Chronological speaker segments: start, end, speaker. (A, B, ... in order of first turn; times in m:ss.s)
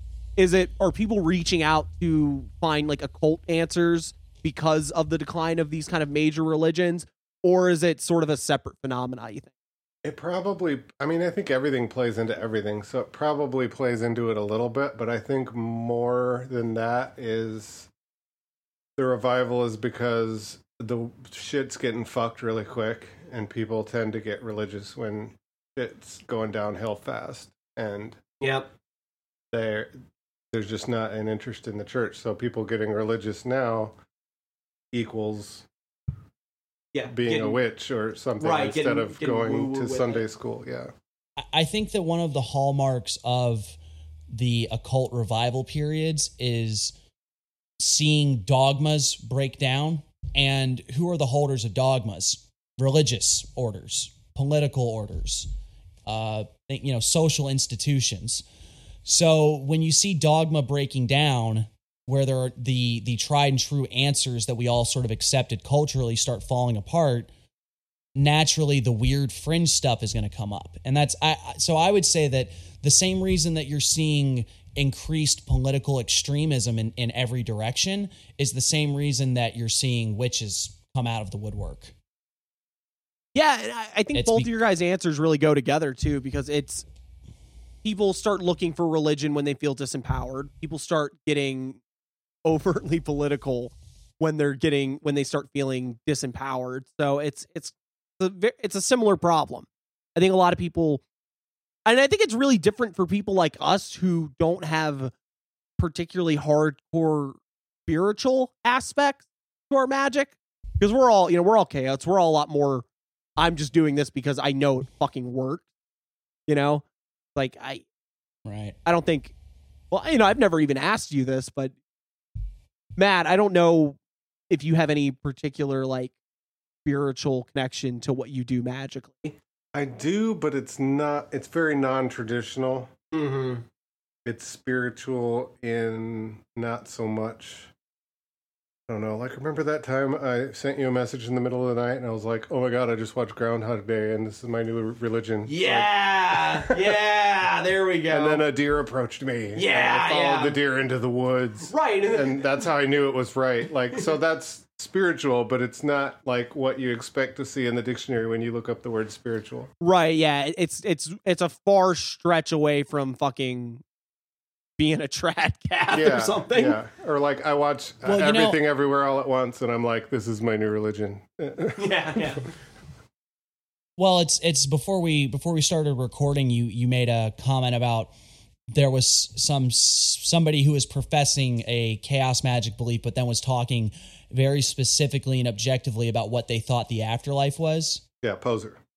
0:00.4-0:09.5 A
0:10.0-0:17.9 B
0:19.0-0:28.2 B
0:28.4-0:28.7 A
0:29.5-0:29.9 B
0:30.5-0:33.9 B
0:34.9-0:35.6 B
0:36.9-0:37.6 A
0:37.1-0:40.9 B
0:38.4-0:40.2 A
0:41.4-0:43.8 C
0:44.3-0:46.9 C
0:47.8-0:55.5 C
0:56.0-0:58.4 C
0:59.0-1:07.3 C
1:08.1-1:21.9 C
1:23.3-1:26.8 A
1:24.1-1:24.5 C
1:27.8-1:31.8 A
1:32.4-1:41.0 A
1:41.8-1:45.1 A
1:45.8-1:52.8 A
1:53.4-1:55.6 A
1:56.5-1:56.8 A
1:57.4-1:57.8 A
1:58.4-1:58.8 C
1:58.8-1:59.3 A
1:59.9-2:01.7 A
2:03.0-2:04.0 A
2:04.5-2:06.1 A
2:06.8-2:09.4 A
2:09.7-2:13.0 B
2:13.1-2:13.6 A
2:14.2-2:17.7 B
2:18.9-2:26.7 B
2:25.5-2:28.4 A
2:28.1-2:39.7 B
2:29.5-2:30.6 A
2:31.7-2:32.4 A
2:39.8-2:43.8 A
2:44.8-2:46.8 A
2:45.9-2:52.3 B
2:48.0-2:48.6 C
2:51.8-2:52.4 A
2:54.0-2:58.1 C
2:58.7-3:08.0 C
3:08.2-3:08.8 B